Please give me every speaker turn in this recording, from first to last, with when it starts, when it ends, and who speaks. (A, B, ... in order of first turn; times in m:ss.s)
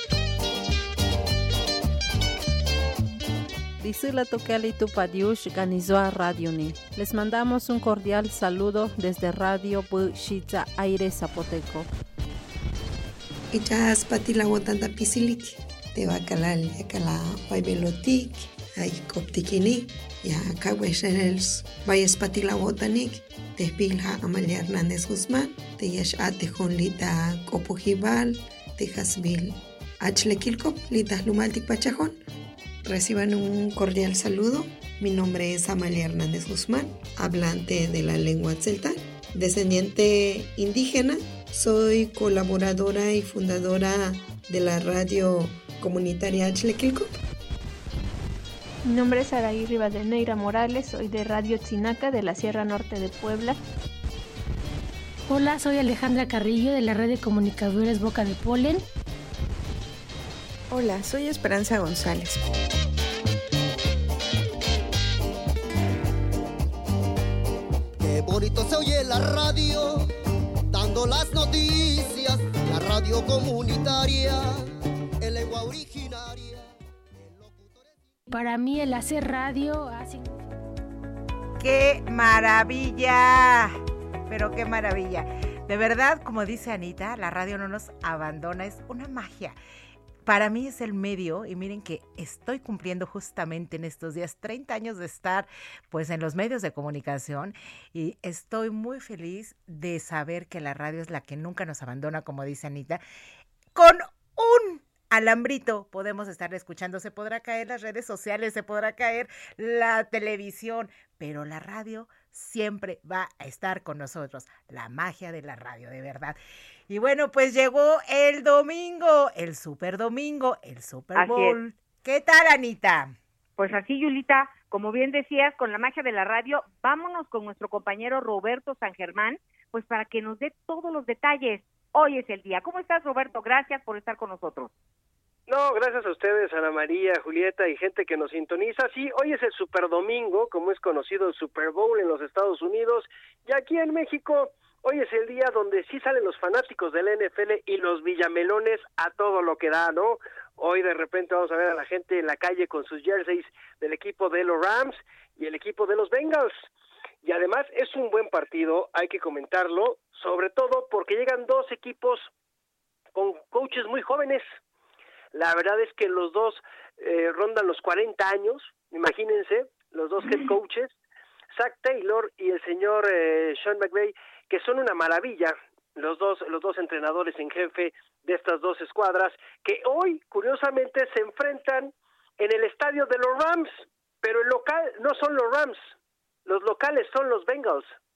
0:03.8-0:11.9 A
0:13.5-0:32.2 B
0:32.8-0:47.1 B
0:48.8-0:53.6 C
0:55.3-0:58.8 D
1:08.0-1:10.1 E
1:10.7-1:14.5 E
1:15.2-1:16.7 E
1:17.2-1:18.0 E
1:18.3-1:20.3 D
1:21.6-1:23.7 F
1:24.3-1:29.6 F
1:30.2-1:43.0 F
1:43.8-1:56.4 F
1:56.9-2:03.2 F
2:01.2-2:01.6 G
2:03.6-2:14.7 G
2:15.5-2:36.7 H
2:37.2-2:42.3 H
2:43.2-2:44.6 H
2:45.3-2:50.9 H
2:51.5-3:06.0 H
3:06.5-3:08.0 H